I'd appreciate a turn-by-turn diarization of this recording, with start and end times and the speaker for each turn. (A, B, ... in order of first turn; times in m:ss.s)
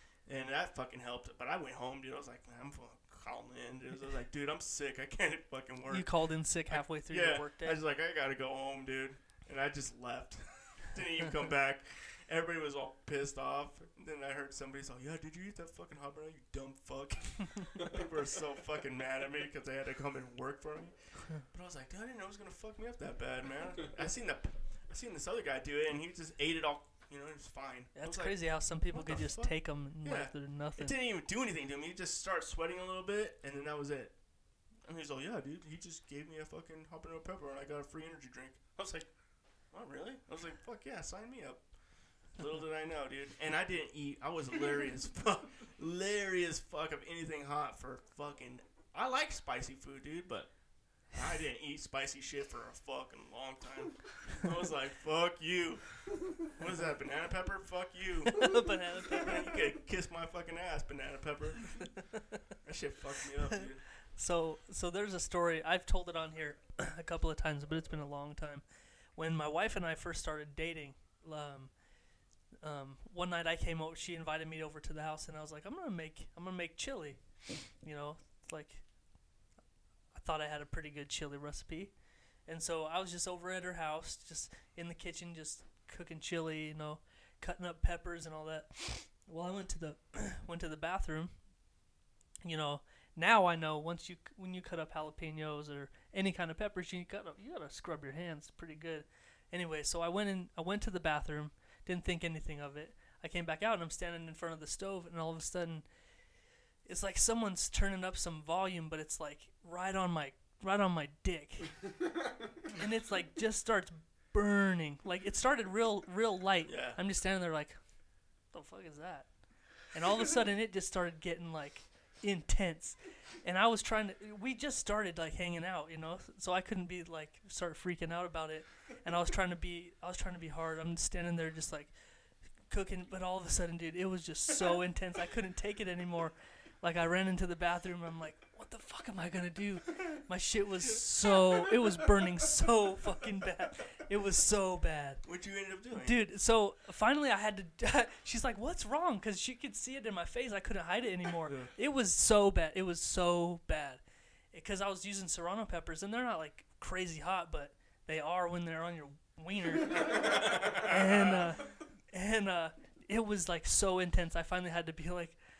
0:00.2-0:06.1 A
0:05.9-0:07.8 B
0:06.7-0:34.1 A
0:27.9-0:30.9 B
0:34.8-0:39.1 A
0:39.7-0:41.6 A
0:42.3-0:50.5 A
0:51.1-1:01.9 A
0:58.3-0:59.5 B
1:02.6-1:03.8 A
1:04.2-1:08.6 B
1:09.2-1:11.7 B
1:12.6-1:17.2 B
1:17.7-1:18.8 B
1:20.1-1:21.9 B
1:22.4-1:31.3 B
1:32.4-1:45.9 B
1:46.8-1:51.8 B
1:52.7-1:57.8 B
1:56.6-1:57.0 A
1:58.5-1:59.3 B
1:59.9-2:11.9 B
2:12.7-2:25.2 B
2:25.2-2:26.2 A
2:26.0-2:34.0 B
2:31.4-2:31.7 A
2:34.5-2:45.4 B
2:40.2-2:41.4 A